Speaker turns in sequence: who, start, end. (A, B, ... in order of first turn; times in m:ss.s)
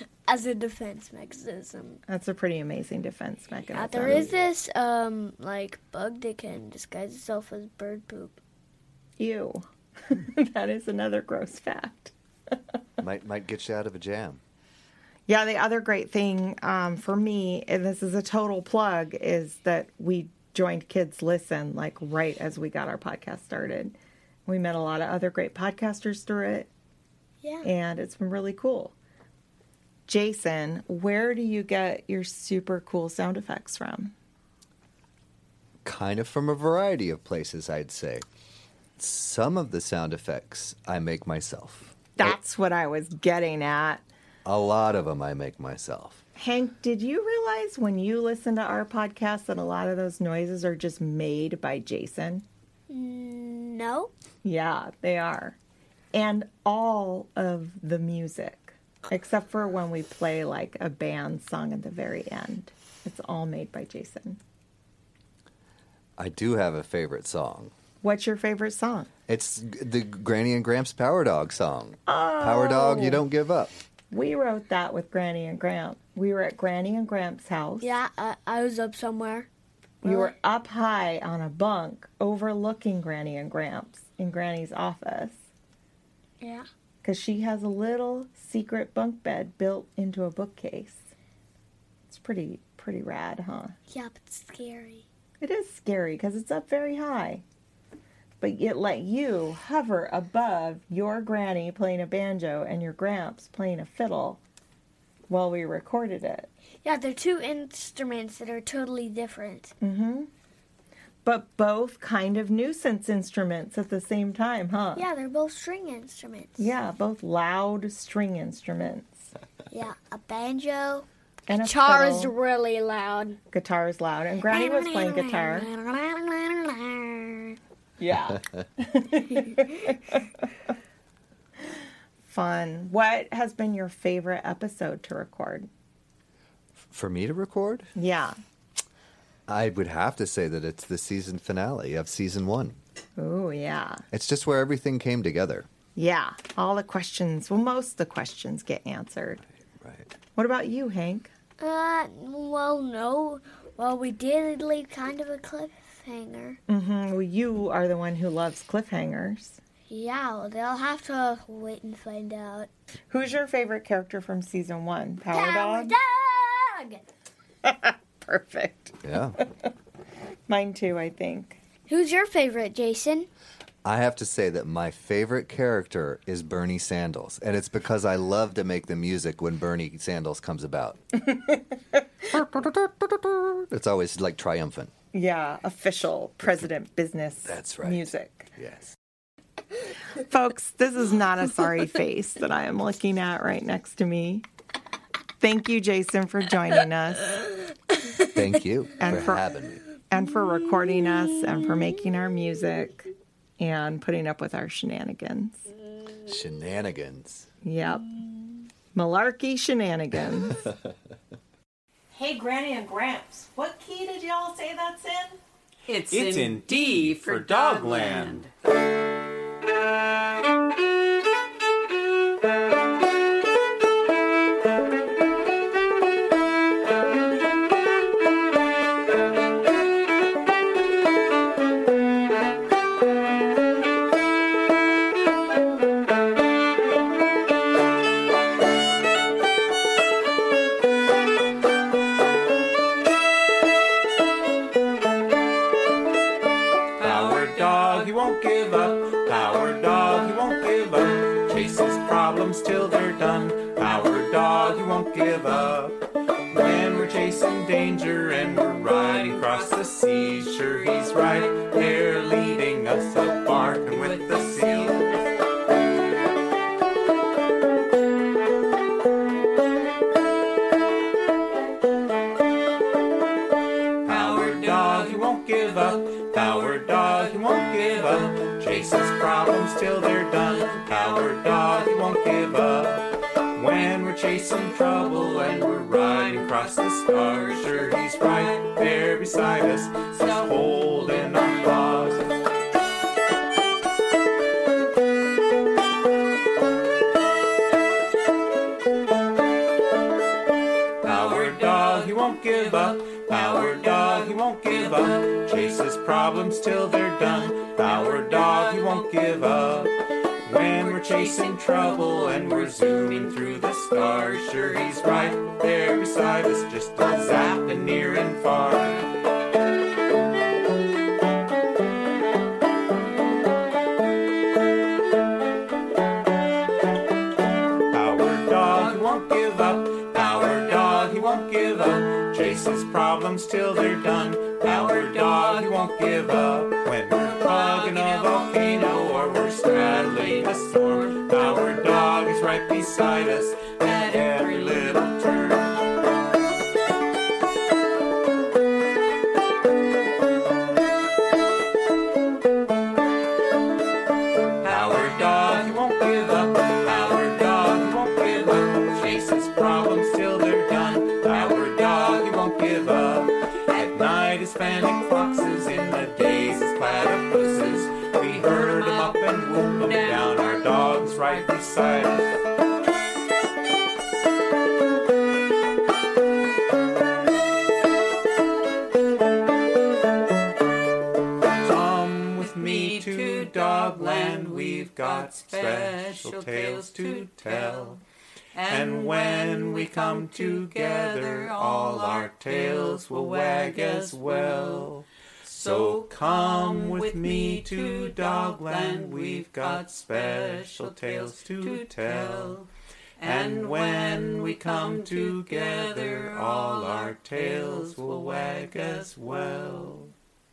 0:00.3-0:02.0 A
0:02.1-0:04.4 B
0:03.7-0:08.4 A
0:09.2-0:12.1 B
0:13.0-0:14.4 C
0:15.3-0:26.7 B
0:27.4-0:27.7 A
0:27.6-0:28.9 B
0:30.1-0:34.1 B
0:35.8-0:38.2 C
0:39.0-0:42.3 C
0:42.2-0:44.0 B
0:44.4-0:46.2 C
0:46.4-0:52.4 B
0:52.9-0:54.1 A
0:54.4-0:55.6 B
0:56.1-1:04.4 B
1:06.2-1:07.7 C
1:08.0-1:09.1 B
1:09.3-1:13.7 C
1:12.1-1:13.2 B
1:14.1-1:17.9 B
1:17.8-1:19.5 A
1:20.0-1:25.4 B
1:20.0-1:20.3 A
1:26.4-1:26.6 A
1:27.0-1:31.1 B
1:32.1-1:33.7 B
1:33.9-1:35.0 A
1:35.4-1:37.4 B
1:38.4-1:44.4 B
1:45.3-1:46.5 B
1:46.8-1:49.7 A
1:49.8-1:50.3 B
1:51.2-1:55.0 B
1:55.0-1:56.7 A
1:56.6-1:59.3 B
1:59.7-2:03.4 A
2:01.5-2:02.3 B
2:03.5-2:05.7 B
2:04.4-2:07.6 A
2:08.0-2:10.2 B
2:12.2-2:15.7 B
2:16.9-2:17.9 C
2:18.0-2:18.3 B
2:19.5-2:22.8 C
2:23.2-2:24.0 B
2:24.1-2:25.7 C
2:26.0-2:29.4 B
2:29.8-2:30.1 C
2:30.3-2:31.3 B
2:31.6-2:36.6 A
2:36.7-2:39.6 B
2:39.9-2:42.7 A
2:43.1-2:45.9 B
2:45.3-2:47.0 A
2:47.6-2:49.4 B
2:49.0-2:49.4 C
2:50.5-2:51.6 B
2:51.9-2:53.3 A
2:53.8-3:01.0 C
3:02.3-3:04.9 C
3:05.1-3:08.5 B
3:07.4-3:08.9 C
3:10.2-3:14.4 B
3:15.4-3:17.3 B
3:18.3-3:19.8 C
3:19.0-3:19.4 B
3:20.1-3:25.6 B
3:26.2-3:27.5 C
3:27.6-3:28.1 B
3:28.2-3:28.5 A
3:28.9-3:30.6 B
3:32.1-3:35.4 B
3:35.9-3:38.5 D
3:36.1-3:38.5 E
4:07.0-4:25.2 E
4:19.0-4:19.8 D
4:23.5-4:25.0 D
4:34.0-4:52.3 E
4:40.7-4:41.2 D
4:45.2-4:45.4 D
4:46.1-4:46.7 D
4:47.4-4:48.0 D
4:50.2-4:51.3 D
5:01.0-5:09.9 E
5:10.4-5:19.1 E
5:10.8-5:13.2 D
5:27.9-5:45.7 E
5:37.3-5:39.4 D
5:39.9-5:40.4 D
5:41.0-5:41.6 D
5:43.9-5:45.0 D
5:54.6-6:12.4 E
6:21.6-6:28.0 E
6:22.4-6:27.9 D
6:28.6-6:32.3 D
6:28.6-6:42.6 E
6:33.6-6:34.8 D
6:35.5-6:42.6 D
6:43.2-6:50.1 E
6:43.2-6:44.0 D
6:44.9-6:45.4 D
6:46.3-6:46.8 D